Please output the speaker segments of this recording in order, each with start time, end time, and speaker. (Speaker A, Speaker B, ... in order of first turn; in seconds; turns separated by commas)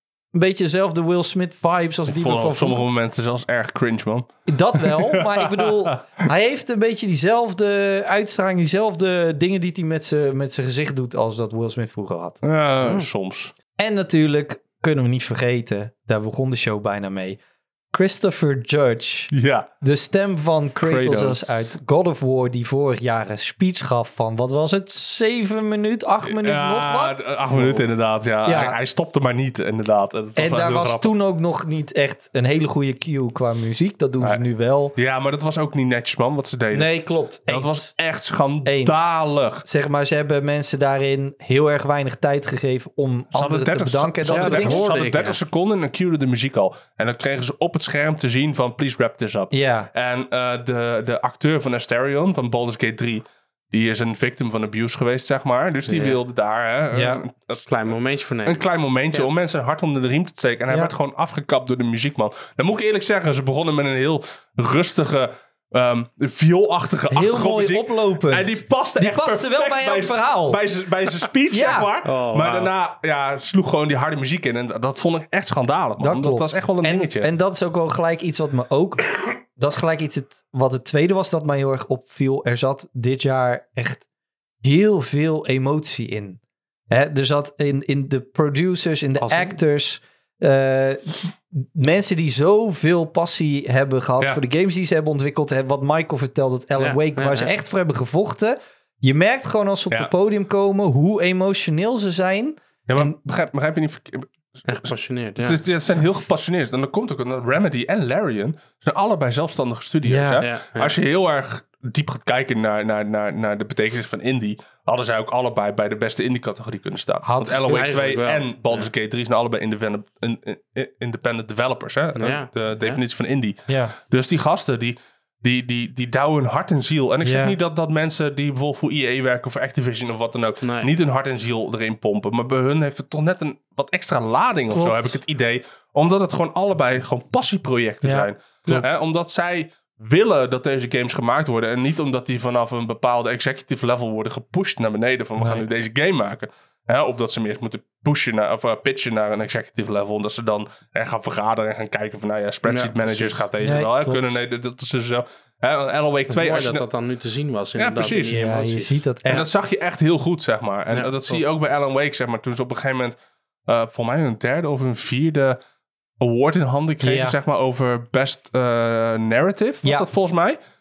Speaker A: 0.3-2.8, Speaker B: 2.1-6.0, Speaker A: 4.5-12.4, Speaker B: 12.4-13.5, Speaker A: 13.8-17.4, Speaker A: 17.9-27.8, Speaker B: 19.3-19.7, Speaker B: 20.8-21.7, Speaker B: 26.2-31.1, Speaker A: 28.4-28.8, Speaker A: 30.4-34.9, Speaker B: 34.9-36.9, Speaker A: 36.7-37.9, Speaker B: 37.5-39.6, Speaker A: 38.6-44.9, Speaker B: 43.3-57.7, Speaker C: 44.3-45.4, Speaker A: 49.5-49.9, Speaker C: 55.9-56.2, Speaker A: 56.9-57.2, Speaker C: 57.7-59.3, Speaker B: 58.4-77.3, Speaker A: 67.1-70.6, Speaker A: 71.5-71.9, Speaker C: 72.0-72.7, Speaker A: 76.0-84.0, Speaker A: 84.6-86.4, Speaker A: 86.9-103.2, Speaker C: 89.2-89.6, Speaker C: 96.8-97.5, Speaker B: 102.9-104.9, Speaker C: 104.7-105.6, Speaker B: 105.4-156.8, Speaker A: 110.0-110.5, Speaker C: 110.4-111.0, Speaker A: 117.2-117.9, Speaker C: 117.6-118.9, Speaker C: 122.2-123.0, Speaker A: 123.7-124.0, Speaker A: 127.2-127.6, Speaker C: 130.6-130.9, Speaker A: 134.7-135.2, Speaker A: 138.0-138.3, Speaker A: 145.4-145.7, Speaker C: 152.7-153.5, Speaker A: 153.6-154.3, Speaker C: 156.3-159.0, Speaker B: 157.8-158.4, Speaker A: 158.3-159.5, Speaker B: 159.2-163.2, Speaker C: 160.9-161.4, Speaker B: 163.7-165.6, Speaker B: 166.2-170.6, Speaker A: 167.0-167.4